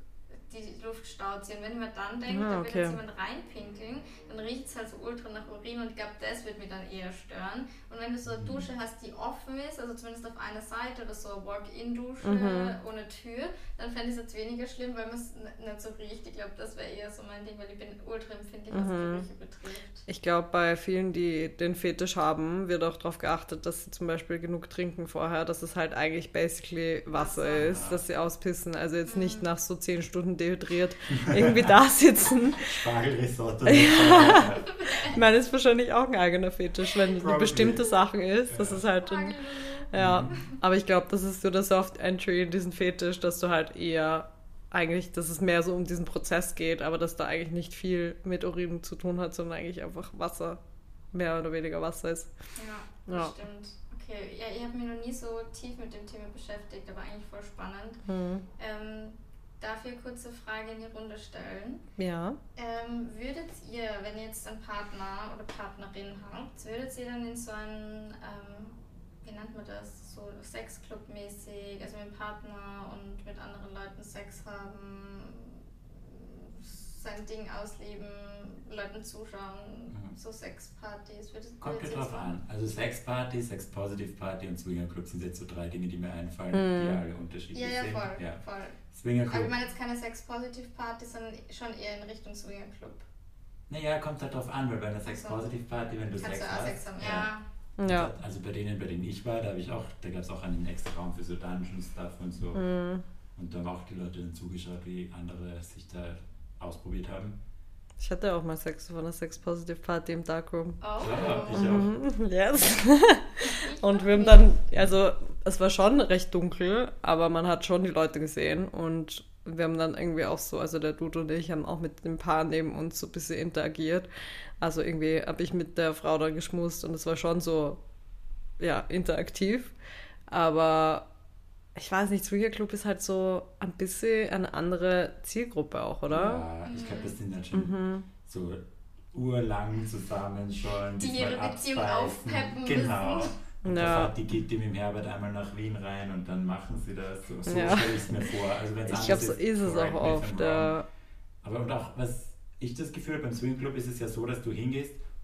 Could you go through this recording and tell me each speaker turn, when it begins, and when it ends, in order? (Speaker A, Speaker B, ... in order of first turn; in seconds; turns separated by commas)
Speaker A: 0.3-20.0, Speaker B: 2.3-3.0, Speaker C: 8.3-8.7, Speaker B: 12.2-12.7, Speaker B: 18.7-19.2, Speaker B: 20.1-32.9, Speaker A: 27.1-27.7, Speaker C: 27.6-28.0, Speaker A: 29.1-29.5, Speaker C: 31.2-31.7, Speaker C: 32.6-35.2, Speaker B: 33.7-34.5, Speaker A: 34.1-35.2, Speaker B: 35.0-39.4, Speaker C: 37.2-37.9, Speaker C: 38.5-38.8, Speaker A: 39.0-40.5, Speaker B: 39.9-50.6, Speaker C: 39.9-40.4, Speaker B: 51.1-52.3, Speaker A: 52.5-58.0, Speaker B: 53.1-53.3, Speaker B: 58.1-58.4, Speaker A: 58.6-61.8, Speaker B: 62.0-62.4, Speaker A: 62.5-82.3, Speaker C: 79.9-80.2, Speaker C: 81.6-89.5, Speaker B: 86.5-87.0, Speaker A: 87.5-93.0, Speaker C: 93.7-102.6, Speaker A: 95.0-95.4, Speaker A: 96.2-97.4, Speaker B: 97.8-98.1, Speaker B: 102.5-103.0, Speaker C: 103.3-107.4, Speaker B: 108.0-110.8, Speaker A: 110.8-111.8, Speaker C: 111.0-111.9, Speaker B: 111.5-124.1, Speaker A: 113.4-114.5, Speaker B: 124.6-127.8, Speaker B: 128.6-129.7, Speaker B: 130.3-131.1, Speaker B: 131.8-136.4, Speaker C: 136.1-150.7, Speaker A: 136.6-137.1, Speaker B: 137.5-138.1, Speaker A: 141.0-143.4, Speaker B: 143.6-144.1, Speaker B: 147.4-148.1, Speaker B: 148.9-150.8, Speaker C: 151.4-155.0